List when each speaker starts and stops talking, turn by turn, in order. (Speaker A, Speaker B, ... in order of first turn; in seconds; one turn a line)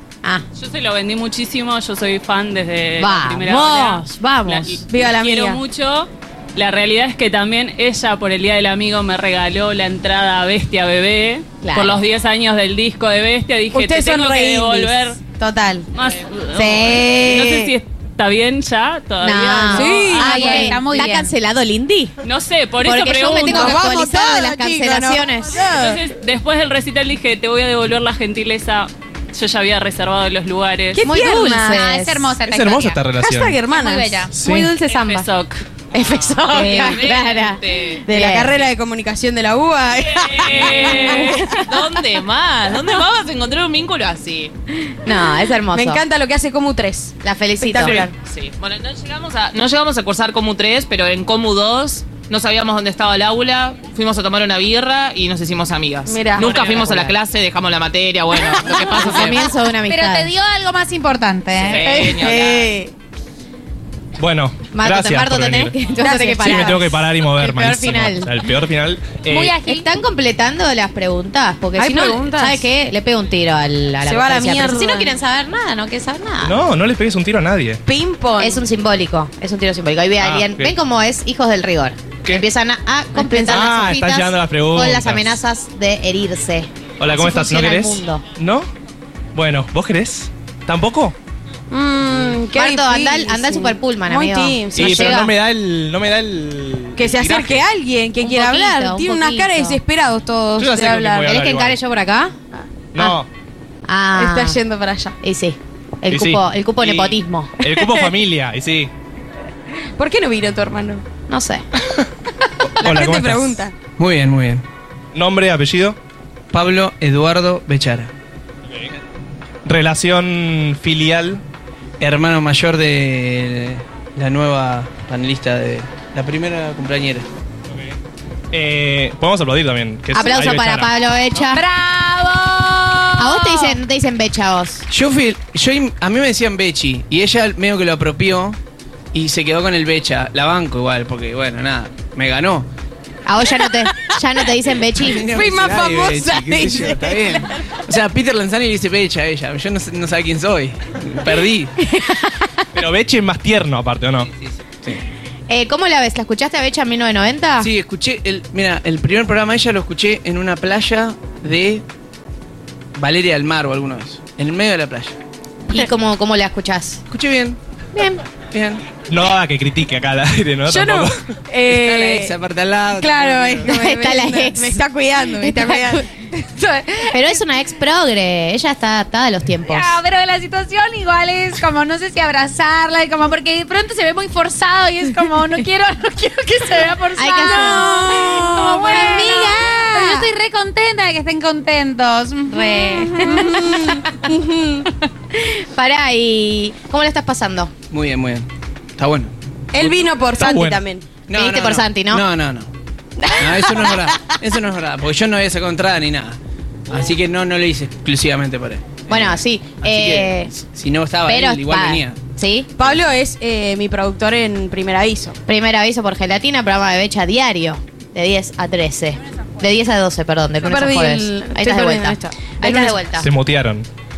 Speaker A: 0.6-15.2
Speaker B: 3.0-4.8
Speaker C: 4.9-5.6
Speaker B: 11.6-12.0
Speaker C: 13.7-15.9
Speaker A: 15.9-20.6
Speaker C: 16.6-17.7
Speaker B: 19.2-22.1
Speaker C: 19.7-20.8
Speaker D: 20.3-21.3
Speaker A: 22.2-23.8
Speaker B: 22.8-25.6
Speaker C: 23.4-26.0
Speaker A: 25.7-31.1
Speaker C: 30.9-32.0
Speaker B: 31.0-32.3
Speaker D: 31.7-33.0
Speaker E: 32.4-33.6
Speaker C: 33.2-34.3
Speaker D: 33.7-34.3
Speaker E: 34.3-34.7
Speaker B: 34.5-35.2
Speaker A: 34.5-35.6
Speaker B: 35.9-38.5
Speaker F: 36.5-38.0
Speaker C: 36.6-37.1
Speaker C: 38.1-41.8
Speaker F: 40.2-44.5
Speaker A: 40.5-41.6
Speaker B: 45.0-46.0
Speaker C: 45.7-48.1
Speaker B: 47.2-48.0
Speaker F: 47.9-59.5
Speaker C: 56.1-56.6
Speaker B: 56.4-57.1
Speaker B: 58.7-60.3
Speaker D: 59.9-62.3
Speaker F: 61.6-62.7
Speaker C: 62.1-62.9
Speaker E: 64.2-69.6
Speaker B: 64.7-68.4
Speaker C: 66.0-66.8
Speaker D: 69.3-69.9
Speaker B: 69.6-76.6
Speaker C: 71.8-72.6
Speaker C: 74.0-75.1
Speaker E: 76.4-77.8
Speaker C: 77.9-78.6
Speaker B: 78.4-88.2
Speaker E: 80.2-80.8
Speaker E: 83.4-85.4
Speaker E: 87.0-88.7
Speaker E: 89.3-91.2
Speaker C: 91.7-95.3
Speaker B: 92.5-95.3
Speaker E: 94.8-97.6
Speaker C: 97.0-101.3
Speaker B: 98.2-99.8
Speaker E: 100.6-101.8
Speaker B: 101.2-102.3
Speaker E: 102.9-103.3
Speaker B: 103.9-104.6
Speaker C: 104.2-105.2
Speaker B: 105.2-107.5
Speaker E: 106.1-108.9
Speaker C: 110.0-111.0
Speaker B: 111.3-111.6
Speaker E: 112.8-113.6
Speaker C: 112.8-113.7
Speaker G: 114.0-114.6
Speaker E: 115.1-116.0
Speaker G: 116.5-118.1
Speaker E: 119.7-121.4
Speaker G: 122.0-127.3
Speaker E: 128.5-131.0
Speaker B: 130.1-131.6
Speaker D: 131.5-133.8
Speaker B: 133.2-134.8
Speaker G: 134.9-138.6
Speaker G: 139.1-142.7
Speaker B: 143.3-145.3
Speaker G: 145.0-151.7
Speaker C: 145.2-147.5
Speaker E: 152.7-154.3
Speaker B: 155.5-157.7
Speaker G: 157.6-161.8
Speaker G: 162.9-165.2
Speaker B: 165.7-167.0
Speaker G: 167.1-167.6
Speaker B: 167.9-168.2
Speaker G: 168.5-168.8
Speaker E: 169.1-171.2
Speaker C: 170.7-172.3
Speaker G: 171.7-173.7
Speaker C: 173.0-176.1
Speaker B: 173.7-174.8
Speaker B: 175.4-175.8
Speaker D: 176.5-177.3
Speaker B: 177.1-180.0
Speaker D: 179.7-193.3
Speaker B: 187.2-190.3
Speaker C: 187.7-188.9
Speaker B: 192.5-193.8
Speaker C: 193.2-194.9
Speaker B: 195.4-197.7
Speaker G: 197.9-199.3
Speaker C: 199.7-201.1
Speaker E: 200.4-200.8
Speaker G: 201.3-202.7
Speaker B: 201.3-202.2
Speaker C: 203.2-204.3
Speaker G: 203.4-212.2
Speaker B: 209.1-210.5
Speaker B: 211.3-212.7
Speaker C: 212.8-215.4
Speaker B: 215.5-223.3
Speaker C: 220.6-223.0
Speaker E: 223.2-223.9